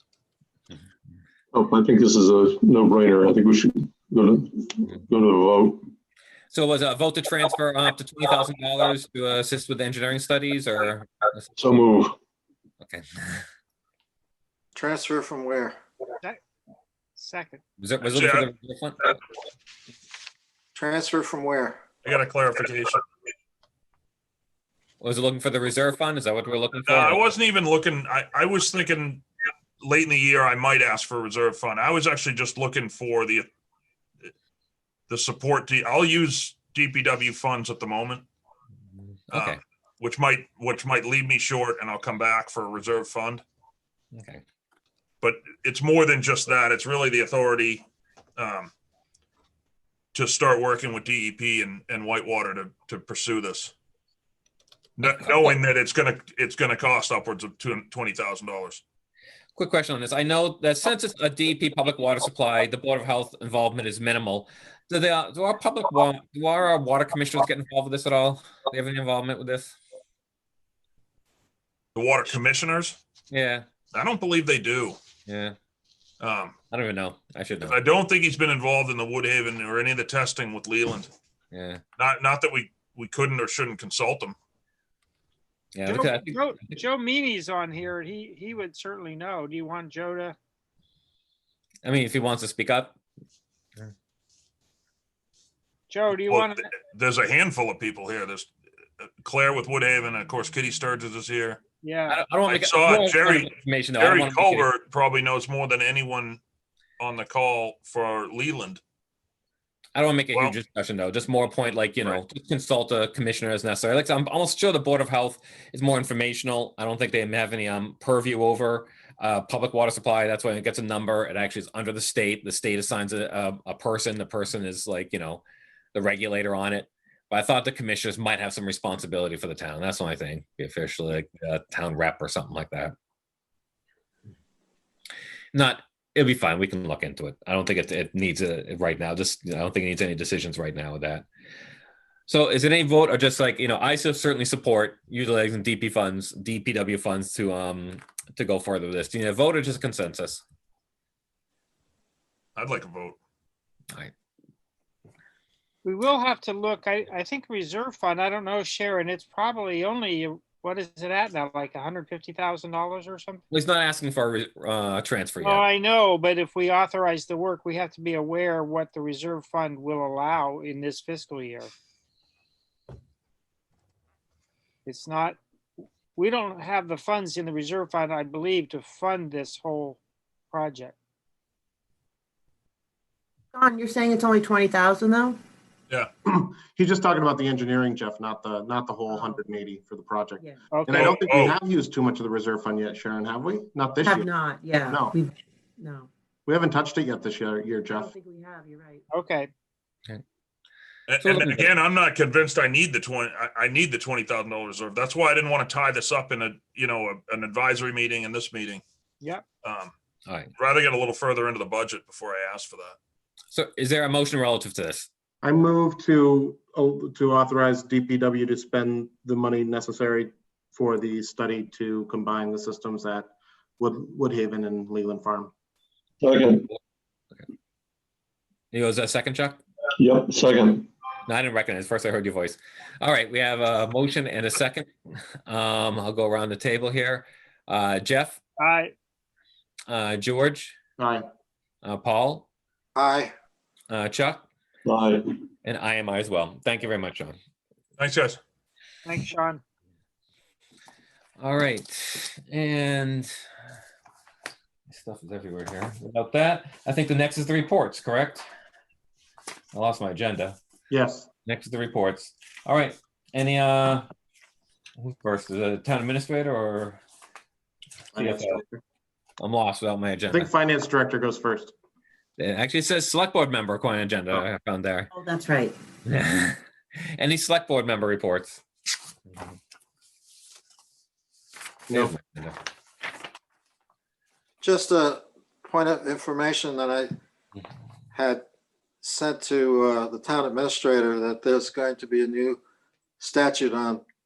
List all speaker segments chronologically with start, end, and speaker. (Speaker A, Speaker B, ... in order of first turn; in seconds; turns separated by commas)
Speaker A: 1.5-5.9, Speaker B: 6.5-11.5, Speaker A: 11.6-12.2, Speaker B: 12.8-13.4, Speaker C: 14.8-15.8, Speaker D: 17.2-17.6, Speaker B: 17.8-19.0, Speaker E: 18.0-18.5, Speaker C: 20.8-21.8, Speaker E: 22.0-23.0, Speaker B: 25.0-27.2, Speaker E: 26.8-29.3, Speaker E: 29.8-33.5, Speaker E: 35.1-38.2, Speaker B: 39.3-39.6, Speaker E: 39.3-43.4, Speaker B: 44.1-44.4, Speaker E: 45.2-47.9, Speaker E: 48.4-48.7, Speaker E: 50.1-53.7, Speaker E: 55.0-58.8, Speaker B: 59.6-69.8, Speaker E: 72.0-73.0, Speaker B: 73.3-73.7, Speaker E: 73.9-75.0, Speaker B: 75.3-75.5, Speaker E: 76.2-76.5, Speaker B: 76.7-77.8, Speaker E: 77.6-81.1, Speaker B: 81.5-81.8, Speaker E: 82.0-84.4, Speaker B: 85.8-86.8, Speaker D: 85.9-90.4, Speaker B: 91.8-93.0, Speaker D: 95.9-96.7, Speaker E: 96.3-101.6, Speaker D: 101.8-102.2, Speaker B: 102.1-104.7, Speaker E: 102.5-106.4, Speaker E: 107.0-108.8, Speaker B: 110.0-125.4, Speaker B: 125.9-132.9, Speaker B: 135.5-141.2, Speaker B: 142.3-150.4, Speaker E: 152.6-153.2, Speaker D: 155.8-163.4, Speaker B: 163.5-165.7, Speaker D: 165.4-171.7, Speaker D: 174.9-175.4, Speaker D: 176.2-180.0, Speaker D: 180.5-180.9, Speaker F: 183.5-185.4, Speaker G: 186.2-194.3, Speaker F: 189.1-189.4, Speaker D: 190.7-191.1, Speaker E: 190.9-191.6, Speaker F: 194.0-196.1, Speaker G: 194.9-195.2, Speaker G: 196.5-198.1, Speaker F: 197.9-199.1, Speaker D: 199.1-199.5, Speaker E: 201.1-208.8, Speaker B: 201.2-201.7, Speaker E: 209.6-209.9, Speaker E: 210.6-213.0, Speaker B: 213.5-215.1, Speaker G: 215.4-225.5, Speaker A: 226.2-226.7, Speaker B: 228.7-229.6, Speaker A: 230.0-230.9, Speaker B: 231.3-234.9, Speaker B: 235.5-238.4, Speaker D: 238.6-238.9, Speaker B: 239.9-240.8, Speaker G: 241.0-241.2, Speaker B: 241.8-242.5, Speaker C: 243.0-243.3, Speaker B: 243.9-244.4, Speaker A: 244.9-245.3, Speaker B: 245.7-247.4, Speaker E: 248.0-248.4, Speaker D: 249.1-249.6, Speaker B: 251.4-253.3, Speaker B: 254.9-258.5, Speaker B: 259.7-260.6, Speaker G: 260.9-261.3, Speaker B: 261.5-264.1, Speaker B: 265.0-267.0, Speaker G: 268.1-268.8, Speaker B: 268.1-268.6, Speaker B: 269.4-270.5, Speaker G: 270.3-271.7, Speaker B: 272.4-275.1, Speaker F: 275.1-275.8, Speaker B: 276.1-276.6, Speaker B: 277.2-278.6, Speaker B: 281.9-282.6, Speaker C: 284.6-287.1, Speaker C: 288.1-288.4, Speaker C: 289.0-292.6, Speaker C: 293.2-294.0